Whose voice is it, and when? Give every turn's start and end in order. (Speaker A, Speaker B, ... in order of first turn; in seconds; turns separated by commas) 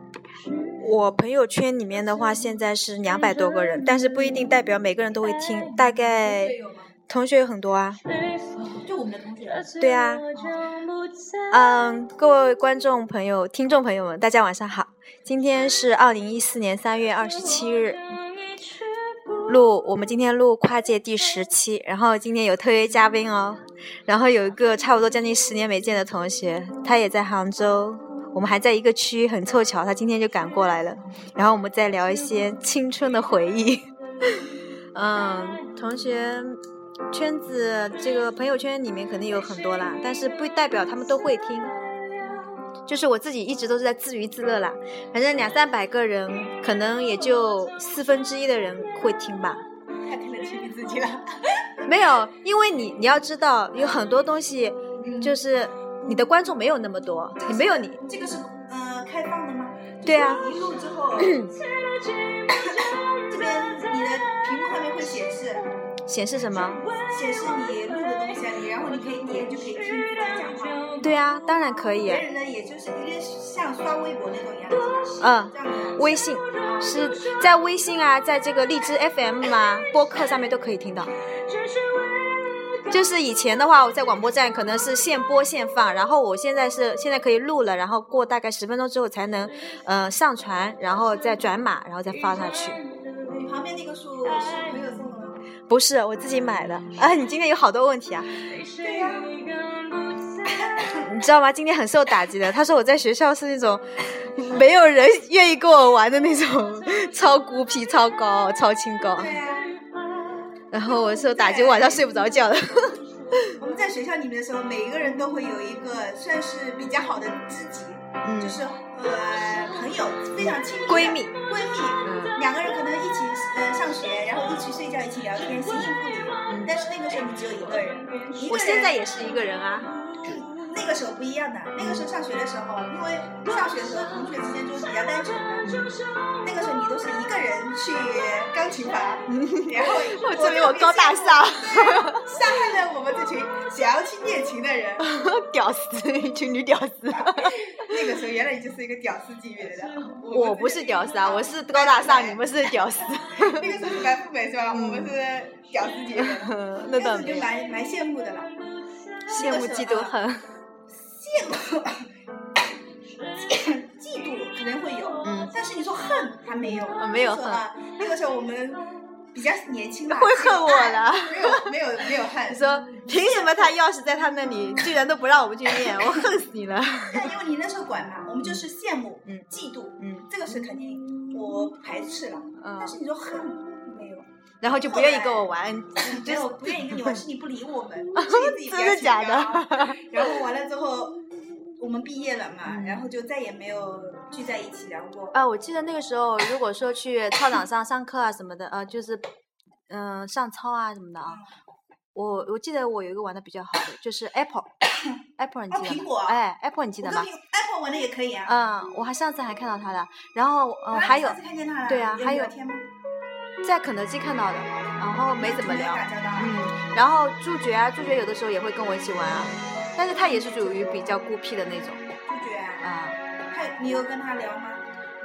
Speaker A: 0.8-6.5, Speaker B: 6.3-6.9, Speaker A: 7.1-8.0, Speaker B: 8.6-9.8, Speaker A: 9.8-10.3, Speaker A: 11.5-18.0, Speaker A: 19.4-41.7, Speaker A: 42.9-49.6, Speaker B: 50.0-51.7, Speaker A: 51.8-58.0, Speaker B: 55.0-55.4, Speaker B: 57.4-61.5, Speaker A: 60.1-60.4, Speaker A: 61.2-61.6, Speaker B: 62.4-65.7, Speaker A: 66.1-66.9, Speaker B: 67.0-70.9, Speaker A: 71.0-72.2, Speaker B: 72.0-76.0, Speaker A: 75.2-81.1, Speaker B: 76.6-77.0, Speaker A: 82.9-92.8, Speaker B: 93.2-95.5, Speaker A: 95.7-98.6, Speaker B: 98.7-99.5, Speaker B: 100.4-101.1, Speaker A: 101.0-109.3, Speaker B: 109.1-109.7, Speaker A: 110.7-113.6, Speaker B: 111.2-112.1, Speaker B: 113.6-129.0, Speaker A: 118.2-118.6, Speaker A: 120.9-121.3, Speaker A: 122.0-122.4, Speaker A: 126.5-126.8, Speaker A: 128.5-129.9, Speaker B: 130.2-145.1, Speaker A: 139.3-142.2, Speaker A: 145.0-148.0, Speaker B: 147.1-158.5, Speaker A: 150.2-154.0, Speaker A: 154.7-155.1, Speaker A: 156.1-157.5, Speaker A: 159.3-160.5, Speaker B: 159.3-160.2, Speaker B: 160.9-162.1, Speaker B: 163.3-172.6, Speaker A: 165.2-165.5, Speaker A: 166.9-167.6, Speaker A: 170.1-171.7, Speaker A: 172.5-177.3, Speaker B: 177.1-185.5, Speaker A: 180.0-180.3, Speaker A: 182.6-183.0, Speaker A: 184.6-187.2, Speaker B: 186.0-191.2, Speaker A: 188.2-190.2, Speaker B: 191.8-195.3, Speaker A: 192.7-193.1, Speaker A: 195.3-199.2, Speaker A: 199.9-201.4, Speaker B: 201.2-201.5, Speaker A: 202.2-204.7, Speaker A: 205.4-207.3, Speaker B: 205.7-206.4, Speaker B: 207.0-208.5, Speaker A: 208.5-212.5, Speaker B: 210.9-212.9, Speaker A: 213.6-222.0, Speaker B: 215.4-216.6, Speaker B: 220.2-221.1, Speaker B: 222.3-222.9, Speaker A: 222.8-223.2, Speaker B: 223.5-224.8